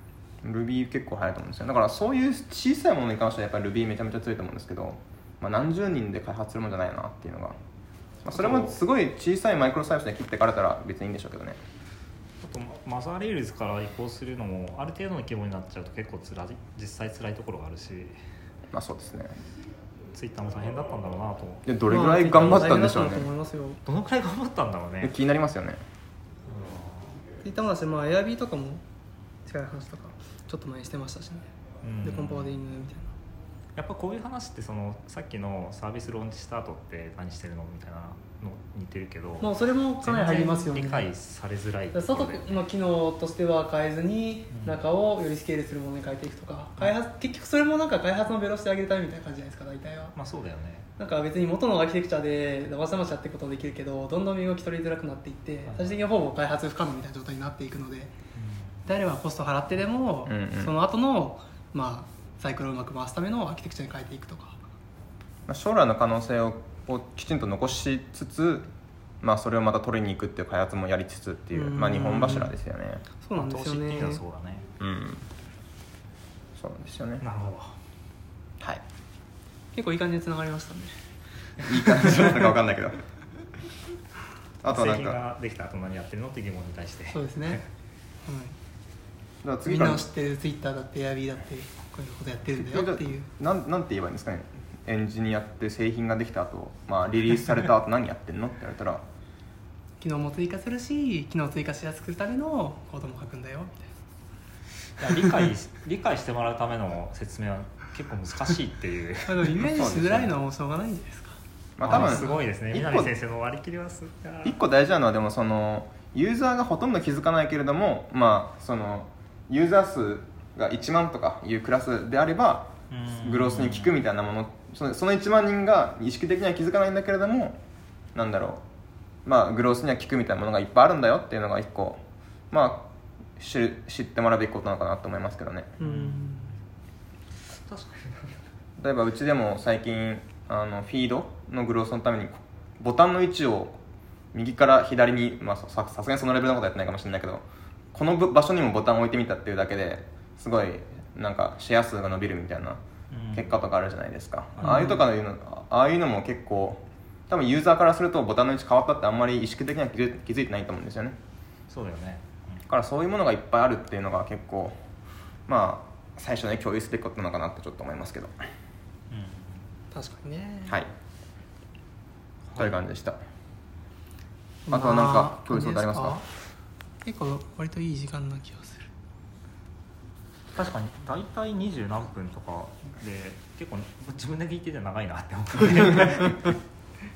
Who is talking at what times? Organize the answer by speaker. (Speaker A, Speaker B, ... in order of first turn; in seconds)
Speaker A: 0.4-7.6, 8.2-11.6, 18.7-19.4, 21.6-23.3, 25.0-25.8, 60.2-60.7, 65.5-68.7, 69.2-73.0, 74.8-75.2, 76.6-77.2, 81.6-83.0, 84.6-85.2, 89.4-90.1, 92.5-99.0, 109.7-110.4, 111.8-113.1, 114.4-127.6, 128.1-128.6, 129.2-135.7, 138.8-143.8, 144.3-152.8, 153.3-161.2, 162.7-164.8, 165.5-168.4, 172.6-173.2, 174.7-176.2
Speaker B: 8.3-8.8, 12.4-18.1, 20.1-21.7, 22.3-22.6, 23.9-25.1, 26.5-27.2, 31.8-32.6, 33.8-42.6, 44.5-44.8, 50.1-50.9, 55.7-56.0, 58.4-58.9, 73.4-74.7, 77.2-77.8, 84.6-87.6, 105.0-109.6, 111.8-114.6, 122.9-124.0, 135.8-136.5, 137.5-138.3, 153.1-153.6, 154.6-154.9, 161.7-162.7, 169.1-169.6, 172.5-172.8, 180.6-186.5
Speaker C: 21.9-23.8, 27.4-28.8, 29.4-31.5, 32.0-33.1, 39.4-41.1, 41.9-50.1, 51.0-58.1, 58.9-64.6, 71.5-72.5, 73.2-74.2, 79.7-81.0, 81.7-82.4, 87.1-87.6, 88.2-88.5, 89.7-93.3, 100.0-103.9, 109.2-112.3, 135.8-136.5, 154.6-155.0, 169.9-170.8, 174.7-176.2, 177.1-178.9